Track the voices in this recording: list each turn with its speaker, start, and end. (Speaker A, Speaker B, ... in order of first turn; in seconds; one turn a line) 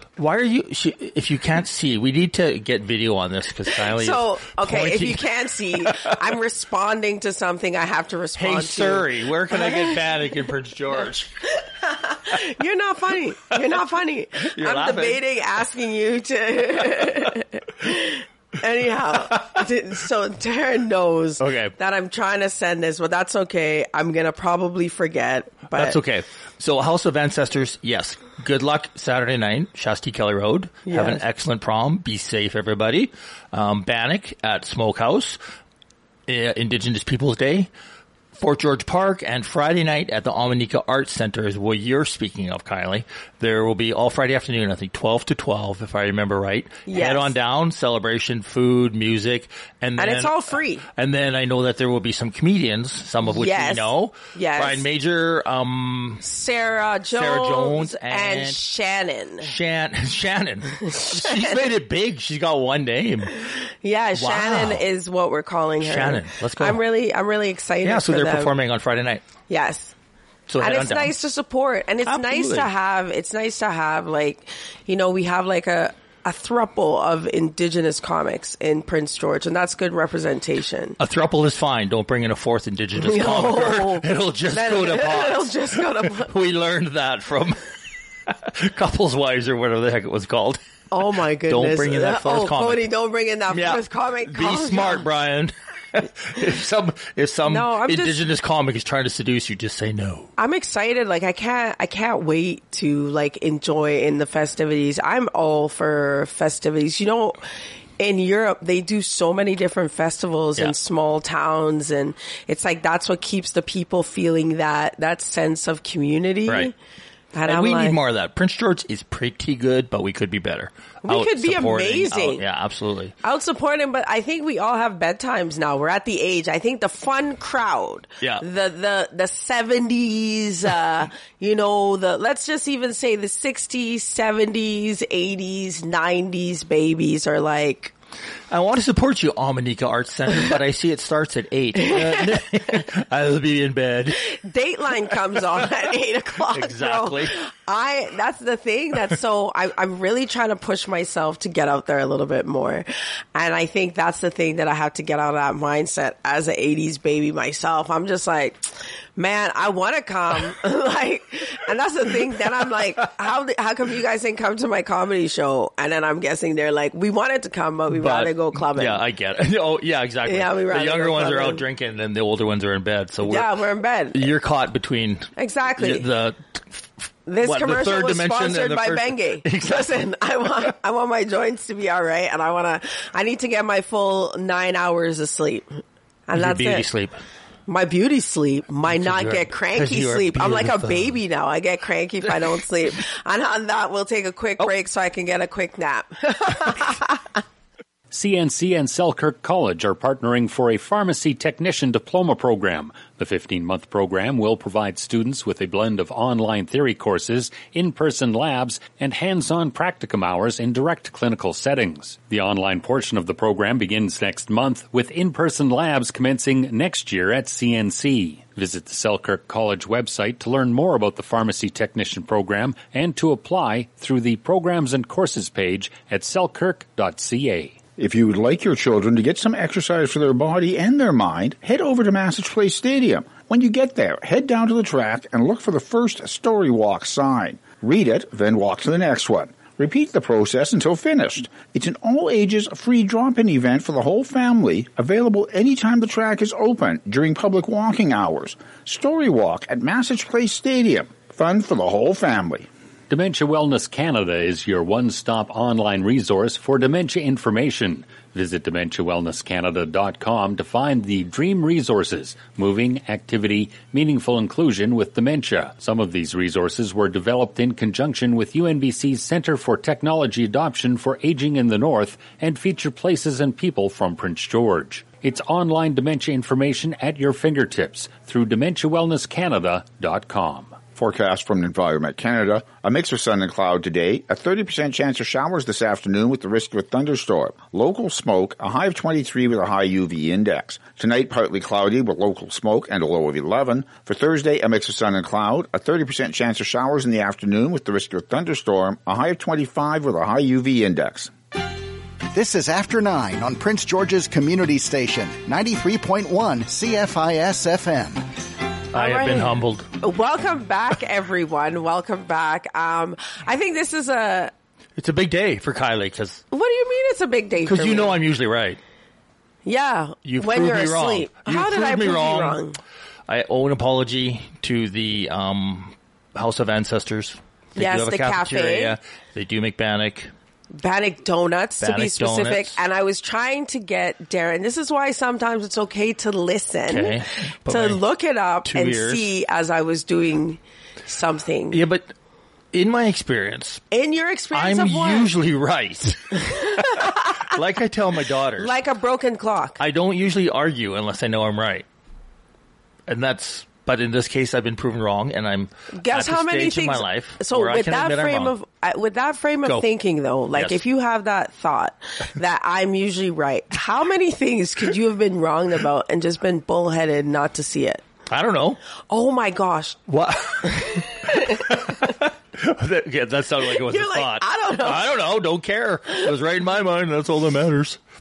Speaker A: 0.2-5.2
Speaker B: 3.7-9.9
Speaker A: 5.8-6.1
Speaker A: 8.3-11.3
Speaker B: 11.6-26.0
Speaker A: 14.5-15.2
Speaker A: 21.4-21.7
Speaker A: 25.7-35.4
Speaker B: 30.9-31.2
Speaker A: 36.3-37.7
Speaker A: 38.3-56.2
Speaker B: 46.9-47.3
Speaker B: 50.0-50.8
Speaker B: 53.3-54.8
Speaker B: 56.2-59.5
Speaker A: 57.1-58.6
Speaker A: 59.4-63.4
Speaker B: 60.8-61.6
Speaker B: 63.5-68.5
Speaker A: 64.2-64.8
Speaker A: 65.8-66.8
Speaker A: 67.8-69.2
Speaker B: 69.5-69.9
Speaker A: 70.5-71.1
Speaker B: 70.6-81.0
Speaker A: 72.0-72.7
Speaker A: 81.0-87.6
Speaker B: 83.0-86.3
Speaker A: 88.5-90.6
Speaker B: 90.9-95.0
Speaker A: 91.5-92.8
Speaker A: 93.5-100.3
Speaker B: 97.5-98.2
Speaker B: 100.4-107.4
Speaker B: 108.0-116.7
Speaker B: 117.3-118.0
Speaker A: 117.4-123.1
Speaker B: 121.0-122.4
Speaker B: 123.2-137.9
Speaker A: 138.5-144.2
Speaker B: 141.8-142.4
Speaker B: 144.3-169.0
Speaker A: 146.5-147.3
Speaker A: 167.9-173.6
Speaker B: 170.2-171.6
Speaker B: 173.2-174.3
Speaker A: 174.1-176.4
Speaker B: 175.3-176.0
Speaker B: 177.2-185.7
Speaker A: 177.4-180.0
Speaker B: 186.3-186.9
Speaker A: 186.3-187.1
Speaker B: 187.7-197.2
Speaker A: 188.9-191.2
Speaker C: 198.1-227.8
Speaker D: 228.0-252.7
Speaker C: 253.1-280.8
Speaker D: 280.9-301.3
Speaker E: 302.3-308.2
Speaker A: 308.9-309.9
Speaker B: 308.9-314.5
Speaker A: 315.0-316.4
Speaker B: 316.5-318.2
Speaker A: 317.6-318.8
Speaker B: 319.6-322.8
Speaker A: 320.2-322.6
Speaker A: 323.3-330.3
Speaker B: 327.8-328.9
Speaker B: 330.7-341.8
Speaker A: 331.8-332.8
Speaker A: 336.9-338.0
Speaker A: 338.6-339.3
Speaker A: 341.7-342.1
Speaker A: 342.7-343.8
Speaker B: 343.9-345.3
Speaker A: 344.5-348.7
Speaker B: 346.4-347.5
Speaker B: 348.6-349.8
Speaker A: 349.8-351.8
Speaker A: 353.1-358.5
Speaker B: 355.9-368.0
Speaker A: 368.3-368.8
Speaker B: 369.1-370.0
Speaker A: 370.1-378.0
Speaker B: 370.6-372.1
Speaker B: 373.7-375.1